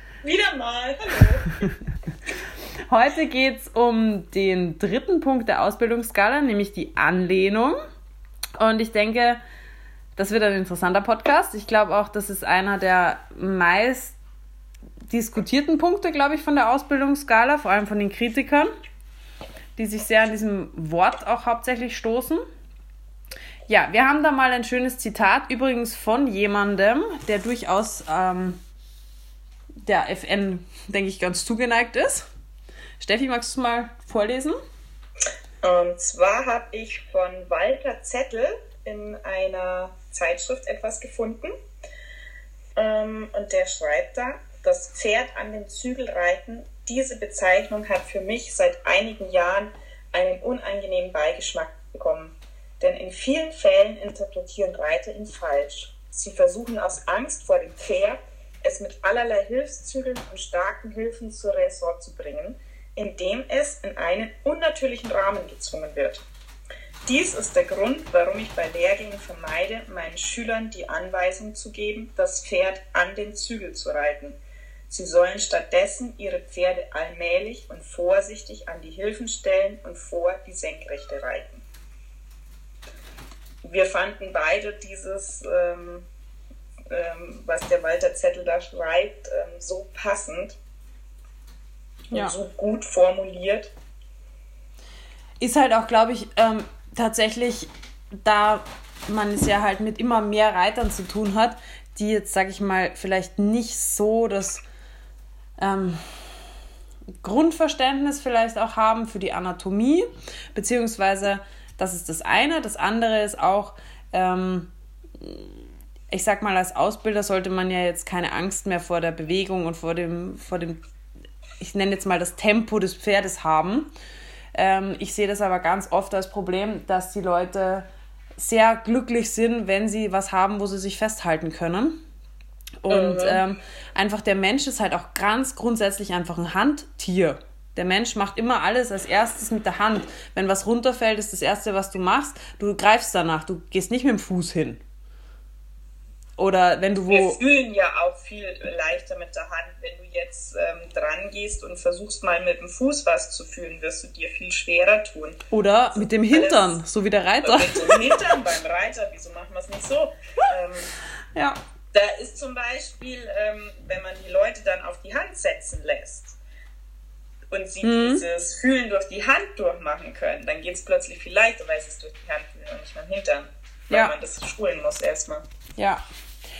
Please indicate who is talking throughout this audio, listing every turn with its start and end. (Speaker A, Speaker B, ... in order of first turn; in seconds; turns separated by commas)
Speaker A: 0.2-1.7, Speaker B: 2.9-7.8, Speaker B: 8.6-9.4, Speaker B: 10.2-14.2, Speaker B: 15.1-18.7, Speaker B: 19.8-22.4, Speaker B: 23.7-28.6, Speaker B: 29.8-32.3, Speaker B: 33.0-34.6, Speaker A: 35.6-41.5, Speaker A: 42.8-66.2, Speaker A: 67.1-74.4, Speaker A: 74.9-81.6, Speaker A: 83.6-86.0, Speaker A: 86.9-90.6, Speaker A: 92.1-93.7, Speaker B: 95.4-97.7, Speaker B: 98.2-104.6, Speaker B: 105.6-106.0, Speaker B: 107.2-115.5, Speaker B: 116.1-120.8, Speaker B: 121.6-123.9, Speaker B: 124.5-132.0, Speaker B: 132.8-144.8, Speaker A: 132.9-133.4, Speaker B: 146.4-147.4, Speaker A: 147.1-155.4, Speaker B: 155.5-158.2, Speaker A: 156.2-156.8, Speaker A: 157.4-160.9, Speaker A: 161.9-166.4, Speaker A: 167.5-175.4, Speaker B: 167.8-168.2, Speaker B: 175.8-176.0